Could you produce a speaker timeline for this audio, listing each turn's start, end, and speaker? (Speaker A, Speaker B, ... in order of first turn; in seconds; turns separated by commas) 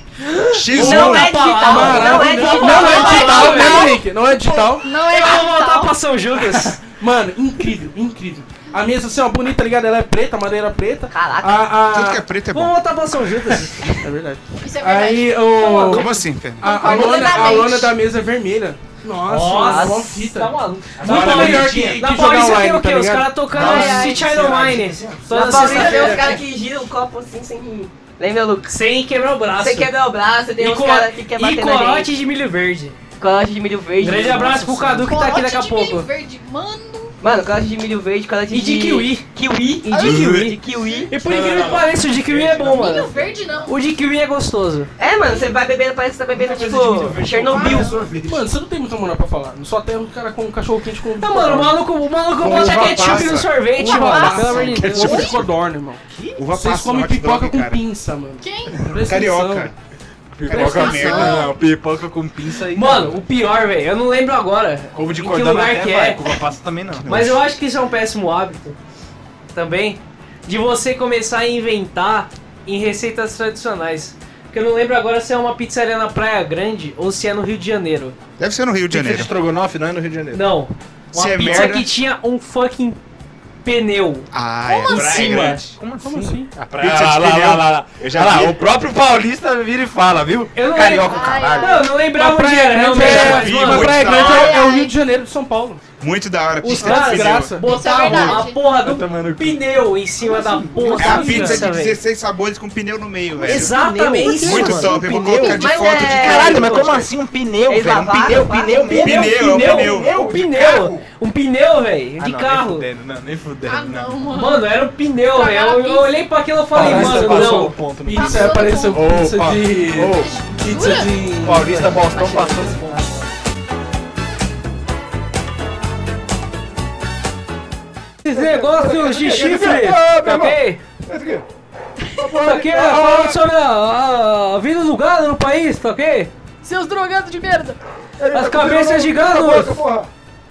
Speaker A: 0.3-3.7, Speaker B: 0.5-1.5, Speaker C: 0.8-4.9, Speaker D: 0.8-4.0, Speaker E: 2.6-5.9, Speaker D: 5.1-6.8, Speaker C: 6.8-12.2, Speaker A: 11.1-11.7, Speaker B: 11.8-12.8, Speaker D: 12.5-13.9, Speaker C: 13.9-23.3, Speaker E: 14.6-17.9, Speaker B: 15.9-17.3, Speaker D: 19.3-26.4, Speaker A: 19.6-20.2, Speaker F: 21.0-22.1, Speaker F: 23.5-26.4, Speaker A: 23.6-24.2, Speaker A: 25.3-28.7, Speaker D: 28.7-29.9, Speaker A: 29.6-32.1, Speaker D: 30.6-33.0, Speaker A: 33.2-35.1, Speaker D: 34.0-36.1, Speaker E: 35.0-37.2, Speaker A: 37.2-41.1, Speaker D: 38.5-39.2, Speaker D: 39.9-40.6, Speaker B: 40.0-40.5, Speaker D: 41.1-43.1, Speaker F: 41.1-43.6, Speaker E: 42.6-43.7, Speaker D: 43.7-44.9, Speaker A: 45.0-48.0, Speaker E: 45.2-45.5, Speaker F: 46.3-48.5, Speaker C: 48.2-51.8, Speaker D: 51.2-55.3, Speaker F: 52.4-53.5, Speaker B: 52.5-53.6, Speaker E: 53.7-55.4, Speaker C: 53.8-56.0, Speaker F: 54.5-55.2, Speaker B: 54.8-55.4, Speaker F: 56.1-56.4, Speaker B: 56.4-57.8, Speaker C: 56.5-59.7, Speaker E: 58.4-58.9, Speaker B: 59.0-59.7, Speaker F: 60.4-63.2, Speaker B: 60.5-61.5, Speaker E: 60.5-61.6, Speaker D: 62.7-66.3, Speaker F: 64.9-67.1, Speaker B: 67.0-67.4, Speaker D: 67.1-68.8, Speaker D: 69.5-78.2, Speaker B: 78.4-79.3, Speaker F: 78.9-80.5, Speaker D: 80.3-83.0, Speaker B: 81.1-81.9, Speaker D: 83.6-84.3, Speaker B: 84.3-85.8, Speaker E: 84.7-85.5, Speaker D: 84.8-85.6, Speaker F: 84.9-91.8, Speaker C: 86.0-86.5, Speaker B: 86.8-88.6, Speaker D: 90.5-94.0, Speaker E: 91.0-91.9, Speaker C: 92.1-95.8, Speaker B: 92.9-94.6, Speaker E: 93.9-94.9, Speaker B: 96.0-97.6, Speaker D: 96.6-102.0, Speaker C: 96.8-98.0, Speaker E: 97.6-98.6, Speaker F: 98.7-99.7, Speaker F: 100.2-101.5, Speaker B: 101.0-106.9, Speaker C: 101.1-101.7, Speaker D: 103.4-105.6, Speaker F: 103.5-105.1, Speaker E: 105.4-105.9, Speaker A: 105.4-107.1, Speaker F: 105.9-111.1, Speaker A: 107.7-109.2, Speaker D: 108.9-112.9, Speaker B: 108.9-110.3, Speaker F: 112.2-114.4, Speaker E: 113.7-114.7, Speaker D: 114.3-117.7, Speaker E: 115.3-116.2, Speaker F: 116.7-120.3, Speaker C: 116.7-122.1, Speaker E: 118.1-119.1, Speaker E: 120.0-121.3, Speaker F: 121.4-123.1, Speaker E: 122.0-123.0, Speaker D: 128.2-130.8, Speaker F: 128.3-131.5, Speaker F: 132.2-133.4, Speaker D: 132.4-136.3, Speaker E: 136.6-137.8, Speaker F: 138.2-140.1, Speaker D: 138.3-139.8